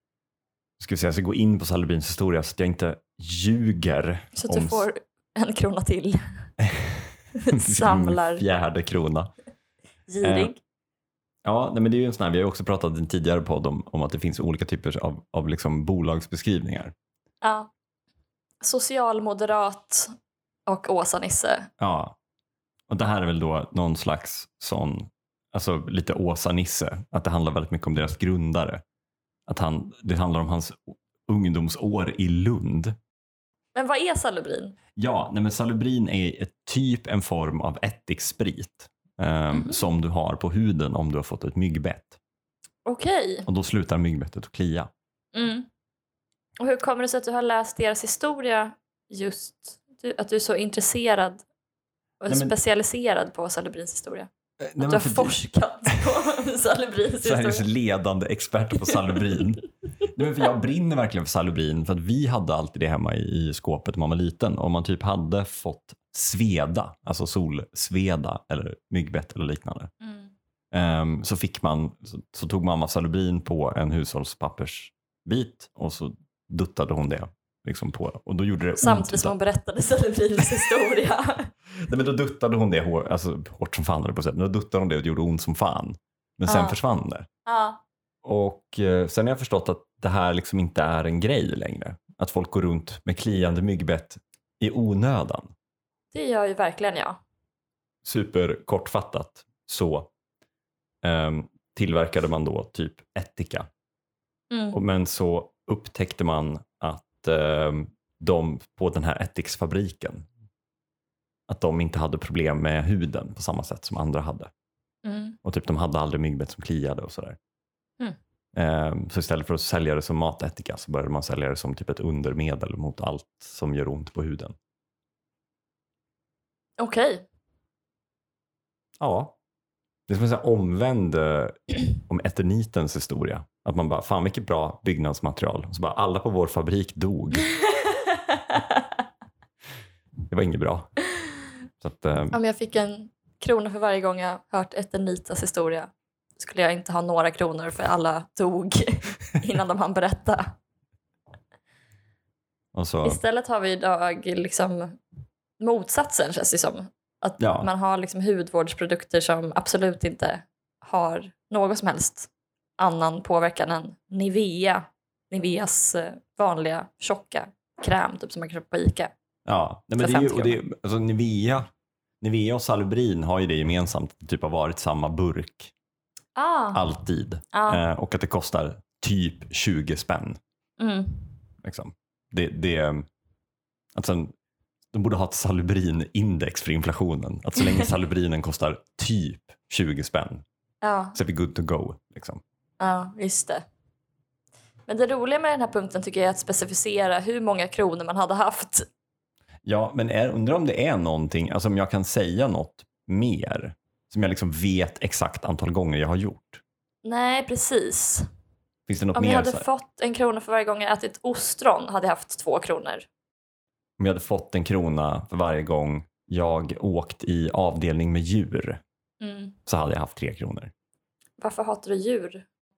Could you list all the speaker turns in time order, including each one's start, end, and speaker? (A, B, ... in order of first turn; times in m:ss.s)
0:00.8-0:04.9 A
0:04.4-0:06.2 B
0:06.6-0:09.3 A
0:07.4-0:08.4 B
0:10.1-0:10.6 B
0:10.2-0:10.5 A
0:11.4-0:16.9 A
0:17.4-0:17.7 B
0:18.6-0:20.1 B
0:20.7-0:21.7 B
0:21.8-0:22.2 A
0:22.9-0:28.8 A
0:29.5-0:33.0 A
0:33.8-0:34.8 B
0:35.0-0:42.2 A
0:39.5-0:39.8 B
0:42.8-0:43.5 B
0:43.5-0:44.9 A
0:45.3-0:45.7 B
0:46.6-0:51.4 B
0:52.2-0:57.7 B
0:52.3-0:52.5 A
0:54.6-0:55.4 A
0:57.2-1:09.9 A
1:10.0-1:10.3 B
1:10.7-1:19.3 A
1:18.8-1:21.5 B
1:21.8-1:27.3 A
1:26.5-1:26.8 B
1:27.5-1:27.8 B
1:28.2-1:35.5 A
1:36.1-1:37.2 B
1:38.0-1:40.1 A
1:41.0-1:43.7 A
1:44.5-1:44.8 B
1:44.7-1:50.3 A
1:51.5-1:54.5 A
1:55.0-1:55.4 B
1:55.4-1:57.4 A
1:58.6-2:04.6 A
2:06.8-2:07.3 B
2:09.0-2:09.4 A
2:10.1-2:17.5 A
2:17.7-2:18.8 B
2:20.3-2:20.9 A
2:21.8-2:22.4 A
2:22.3-2:30.5 B
2:32.7-2:33.2 A
2:33.0-2:35.0 B
2:35.6-2:49.1 B
2:37.4-2:37.7 A
2:49.5-2:51.7 A
2:50.0-2:50.6 B
2:52.2-2:55.7 A
2:56.4-2:56.8 B
2:56.7-3:00.4 A
2:57.5-2:57.8 B
3:00.8-3:01.2 B
3:01.6-3:03.1 A
3:04.0-3:04.3 A
3:04.9-3:10.4 A
3:10.8-3:11.2 B
3:11.1-3:12.4 A
3:12.8-3:13.6 B
3:14.9-3:18.9 B
3:19.6-3:26.6 A
3:27.0-3:28.3 B
3:28.9-3:29.7 A
3:29.2-3:33.1 B
3:34.0-3:38.8 A
3:39.2-3:39.6 B
3:39.7-3:40.7 A
3:41.4-3:42.5 B